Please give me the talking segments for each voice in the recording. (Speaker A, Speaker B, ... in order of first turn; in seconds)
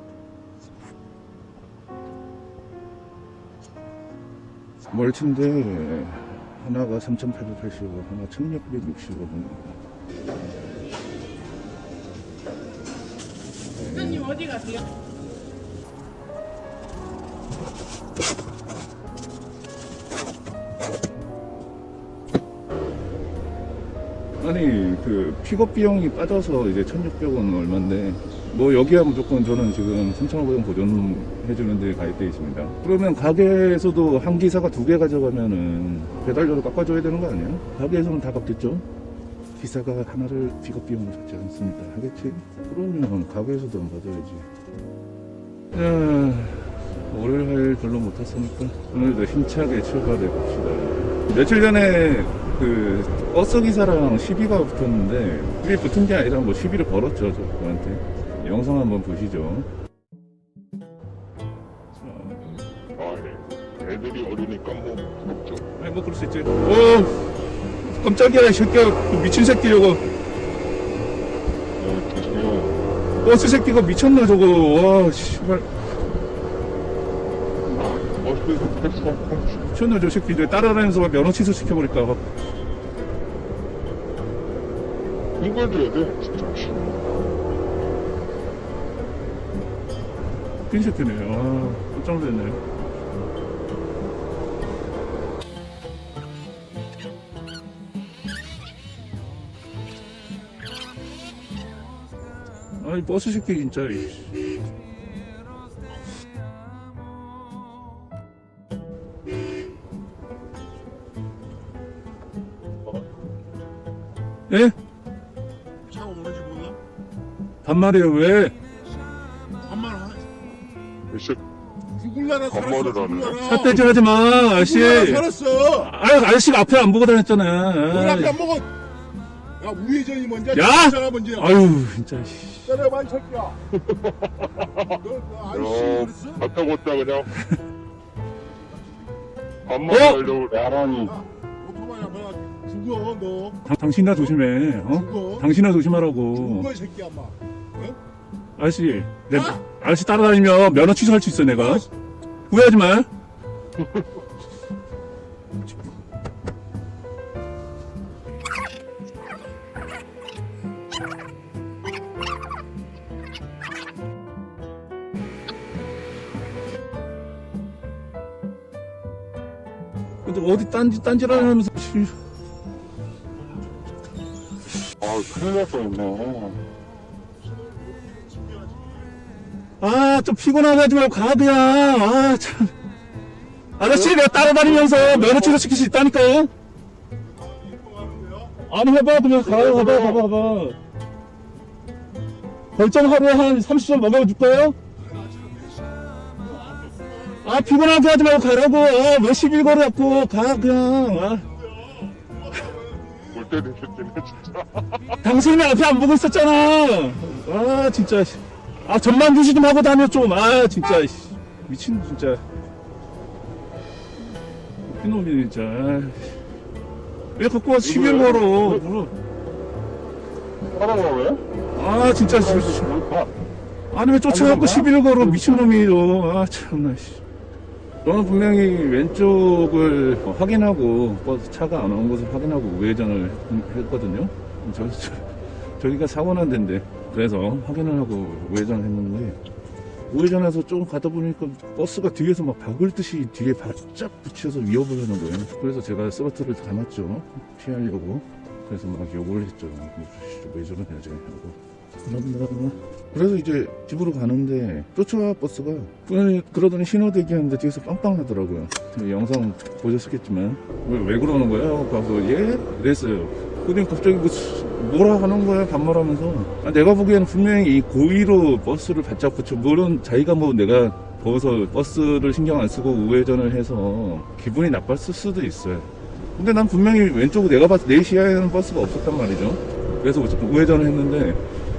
Speaker A: 4.9-9.8, 13.7-14.7, 24.4-38.9, 39.5-44.5, 45.7-59.7, 62.0-62.6, 65.8-70.0, 73.2-75.7, 79.6-82.2, 90.7-92.6, 102.8-104.3, 114.5-114.8, 117.6-118.5, 123.4-128.4, 130.5-132.8, 139.9-140.3, 143.6-146.7, 148.6-151.9, 152.5-153.1, 170.2-172.1, 179.8-182.7, 183.8-186.5, 188.6-190.8, 192.7-194.8, 197.4-201.5, 205.2-212.4, 214.8-216.4, 217.3-219.1, 221.7-222.9, 223.9-227.2, 228.0-239.4, 240.1-281.4
Speaker B: 63.0-65.7, 71.8-72.8, 77.7-79.7, 85.4-87.0, 121.1-121.4, 122.5-123.4, 133.7-137.3, 139.7-141.2, 175.0-176.6, 183.8-185.6, 189.4-190.2, 203.3-205.0, 217.8-218.8, 220.7-221.5, 222.3-223.3, 224.3-224.9
Speaker C: 115.9-116.8, 119.6-120.3, 121.9-123.8, 124.6-125.9, 127.9-128.7, 129.6-131.5, 132.7-133.6, 135.0-136.4, 141.6-143.6, 144.9-145.5, 146.3-148.0, 177.6-179.1, 187.4-188.6, 195.2-196.0, 201.9-203.4